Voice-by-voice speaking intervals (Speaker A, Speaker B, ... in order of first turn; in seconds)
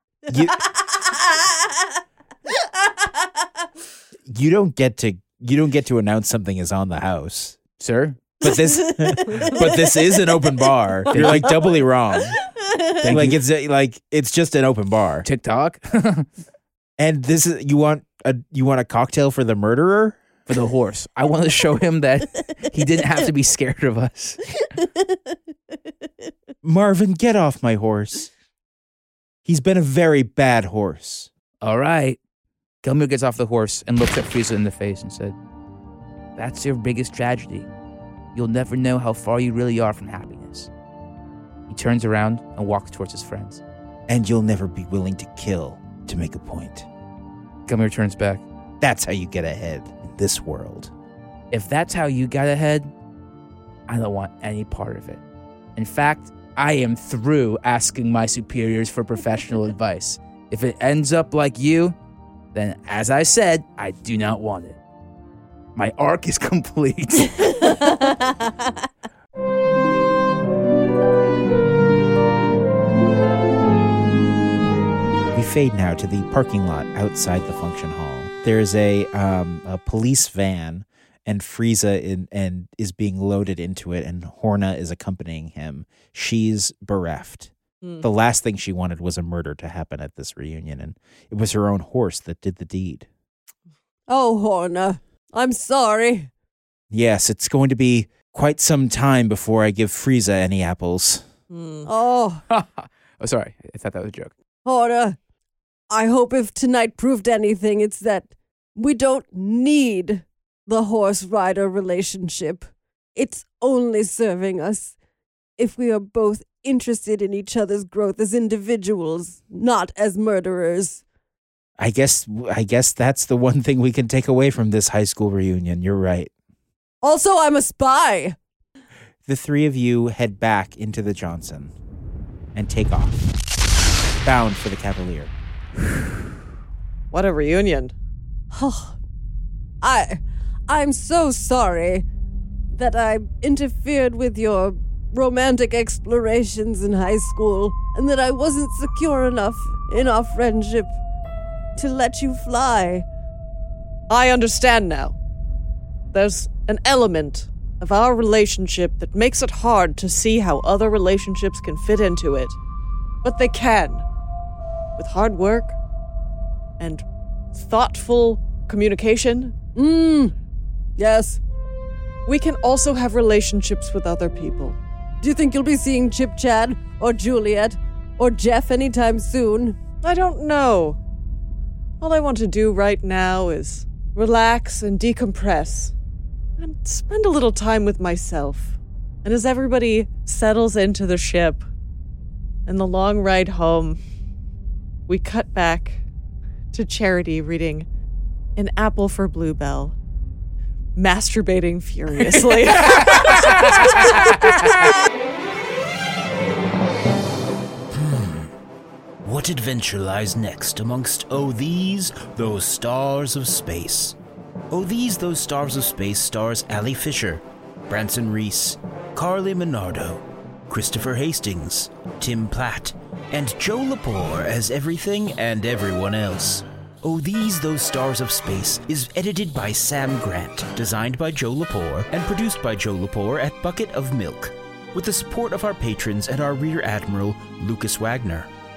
Speaker A: 0.3-0.6, 4.3-7.6, 8.4-12.4, 13.0-15.3, 17.0-20.2, 26.6-28.3, 29.4-31.3, 44.1-46.9, 48.8-50.9, 75.3-93.1, 96.9-101.2, 121.8-126.3, 129.2-131.7, 132.6-133.2, 134.2-135.3
Speaker B: 7.8-8.4, 11.1-11.7, 12.9-13.4, 15.2-16.3, 20.5-24.7, 31.6-32.2, 32.8-35.4, 36.4-37.7, 38.3-40.7, 41.7-43.6, 47.7-48.4, 51.5-52.9, 53.9-55.2, 55.8-62.0, 62.5-64.8, 65.8-68.1, 102.5-104.3
Speaker C: 8.8-9.9, 12.6-13.0, 94.1-96.3, 101.8-102.4, 104.7-105.2, 105.9-115.0, 115.6-121.0, 127.0-128.4, 138.5-139.0, 139.8-142.1, 142.7-151.0, 151.8-153.1, 169.8-170.3, 171.0-171.4, 175.2-179.8
Speaker D: 101.5-101.9, 137.1-137.9, 154.1-155.2, 156.1-162.6, 163.2-164.1, 165.0-165.8, 166.8-169.6, 172.3-174.8, 180.0-181.0, 182.0-185.9, 186.6-191.7, 192.7-194.0, 195.1-196.0, 196.7-197.9, 198.6-199.9, 201.0-204.5
Speaker E: 207.9-208.5, 209.2-214.2, 214.7-238.5